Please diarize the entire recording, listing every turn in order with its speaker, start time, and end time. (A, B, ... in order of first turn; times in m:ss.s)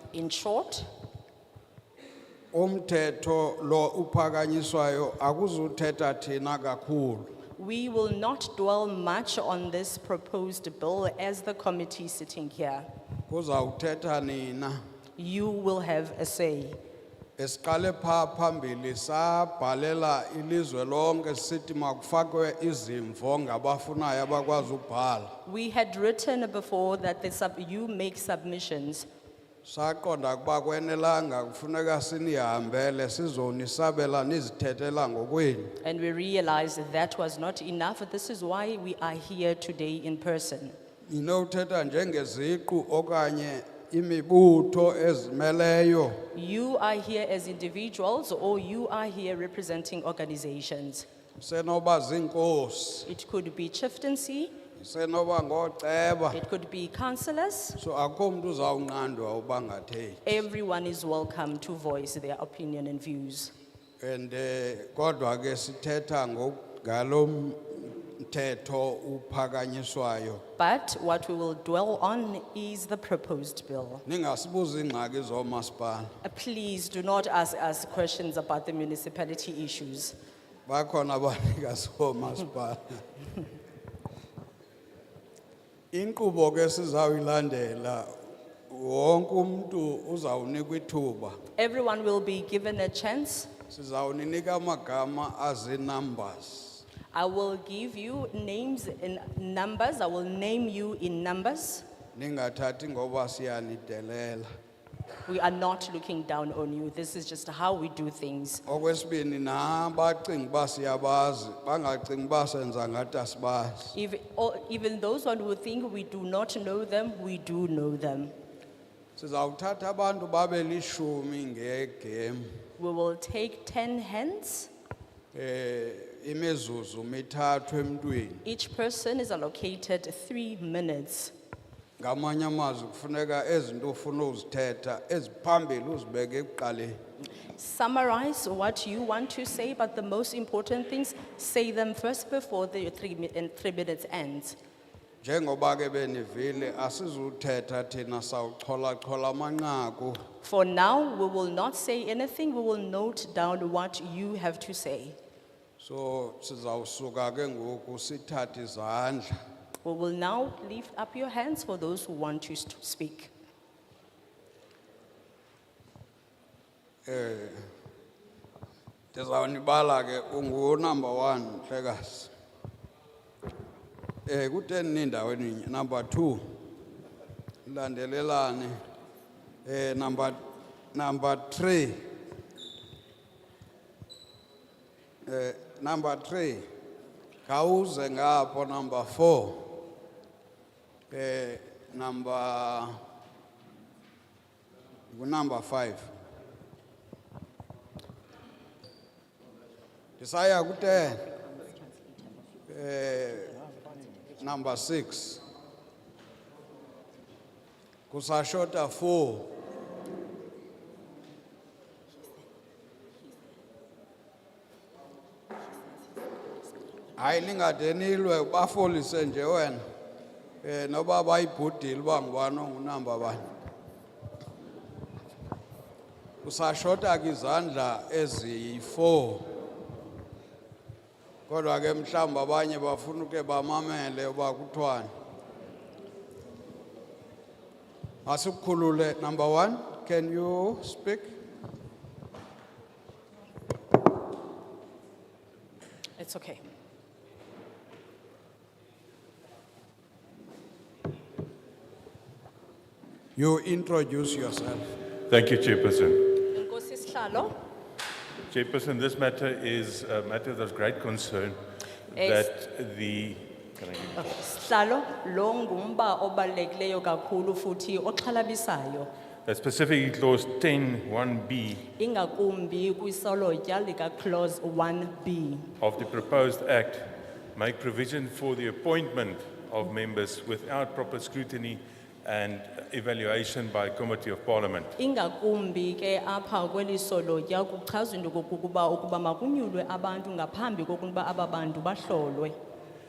0:00.1-0:00.9 A
0:02.5-0:07.3 B
0:07.6-0:12.8 A
0:13.3-0:14.8 B
0:15.2-0:16.8 A
0:17.4-0:25.4 B
0:25.4-0:29.1 A
0:29.6-0:35.8 B
0:35.8-0:40.7 A
0:41.1-0:46.3 B
0:46.3-0:51.0 A
0:51.4-0:53.1 B
0:53.0-0:54.5 A
0:54.8-0:56.4 B
0:56.3-0:57.8 A
0:57.8-1:00.3 B
1:00.2-1:03.5 A
1:04.0-1:10.4 B
1:10.6-1:14.0 A
1:14.0-1:16.1 B
1:16.2-1:20.1 A
1:20.6-1:23.0 B
1:25.9-1:28.1 B
1:28.7-1:31.4 B
1:31.6-1:33.5 A
1:33.7-1:36.8 B
1:37.1-1:41.8 A
1:42.1-1:44.5 B
1:45.2-1:48.6 A
1:48.6-1:54.0 B
1:53.9-1:58.3 A
1:59.2-2:02.5 B
2:02.8-2:04.7 A
2:05.3-2:08.4 B
2:08.4-2:11.3 A
2:12.0-2:17.0 B
2:17.6-2:24.6 A
2:25.2-2:30.2 B
2:30.4-2:35.2 A
2:35.8-2:39.3 B
2:39.8-2:43.3 A
2:47.0-2:47.6 B
2:49.1-2:52.3 B
2:54.2-2:56.4 B
2:57.6-2:58.7 B
2:59.6-3:00.4 B
3:00.9-3:02.0 B
3:05.2-3:06.6 B
3:07.4-3:09.8 B
3:11.1-3:13.0 B
3:15.1-3:16.0 B
3:20.2-3:21.3 B
3:22.7-3:23.6 B
3:24.4-3:25.4 B
3:28.1-3:29.5 B
3:37.2-3:39.8 B
3:40.6-3:43.4 B
3:46.4-3:49.5 B
3:51.5-3:55.1 B
3:58.2-4:01.3 B
4:06.2-4:06.6 A
4:13.4-4:14.9 B
4:15.3-4:16.4 C
4:16.5-4:17.5 A
4:18.5-4:21.6 C
4:22.1-4:24.2 C
4:22.1-4:22.4 A
4:24.2-4:29.1 A
4:29.4-4:31.8 C
4:31.9-4:35.7 A
4:35.8-4:44.9 C
4:45.0-4:52.5 A